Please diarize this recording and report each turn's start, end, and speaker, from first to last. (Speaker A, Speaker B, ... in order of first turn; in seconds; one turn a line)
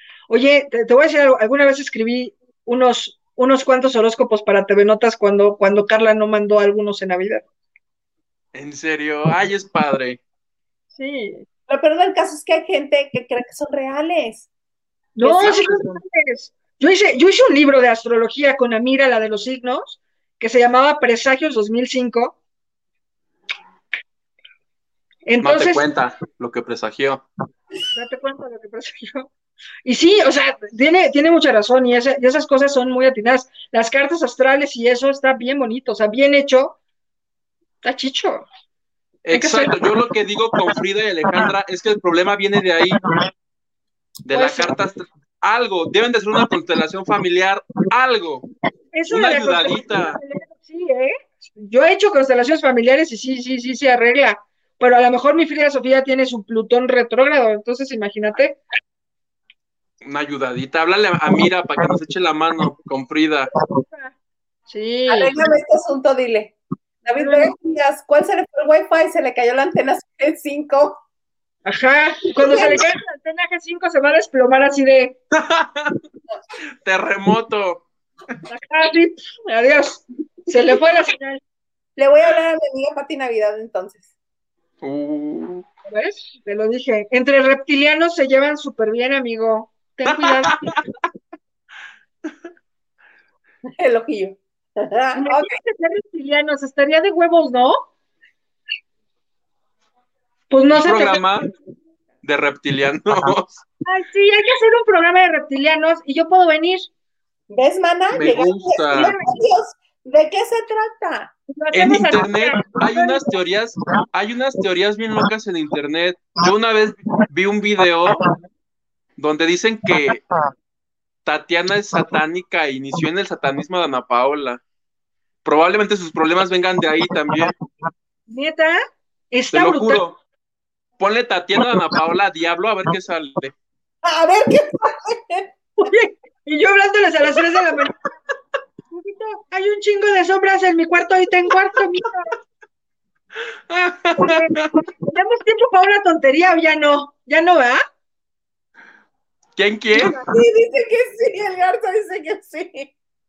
Speaker A: 0.3-7.5
Speaker B: 8.5-10.2
Speaker A: 10.9-11.4
Speaker C: 11.7-14.5
Speaker A: 15.2-22.4
Speaker C: 15.2-15.7
Speaker A: 25.2-25.8
Speaker B: 25.4-27.2
Speaker A: 27.9-29.3
Speaker A: 29.8-36.8
Speaker A: 37.8-38.4
Speaker B: 39.2-43.0
Speaker A: 39.3-39.7
Speaker B: 44.2-48.5
Speaker A: 44.3-44.7
Speaker A: 48.9-58.6
Speaker B: 49.1-50.2
Speaker B: 60.0-63.5
Speaker A: 63.9-64.1
Speaker A: 64.7-65.5
Speaker C: 65.1-71.0
Speaker A: 67.2-67.5
Speaker A: 71.6-75.2
Speaker C: 72.4-72.8
Speaker B: 75.3-76.0
Speaker B: 76.8-77.8
Speaker A: 78.5-81.4
Speaker C: 82.0-84.1
Speaker B: 84.8-85.6
Speaker A: 85.9-90.6
Speaker B: 90.2-90.5
Speaker C: 93.8-95.6
Speaker A: 95.2-97.8
Speaker A: 100.5-101.3
Speaker B: 100.7-101.5
Speaker B: 102.2-103.6
Speaker A: 103.8-106.8
Speaker C: 107.5-111.3
Speaker B: 108.1-109.1
Speaker A: 108.9-109.3
Speaker A: 111.5-113.2
Speaker B: 111.7-118.3
Speaker B: 119.2-120.2
Speaker B: 121.2-124.6
Speaker B: 125.4-127.5
Speaker A: 128.3-128.8
Speaker A: 129.3-130.0
Speaker B: 129.5-130.2
Speaker B: 131.0-133.5
Speaker C: 134.0-135.5
Speaker A: 135.8-137.9
Speaker A: 138.9-142.4
Speaker B: 143.7-144.7
Speaker A: 144.2-147.8
Speaker B: 149.6-150.2
Speaker A: 149.9-150.3
Speaker C: 150.3-152.9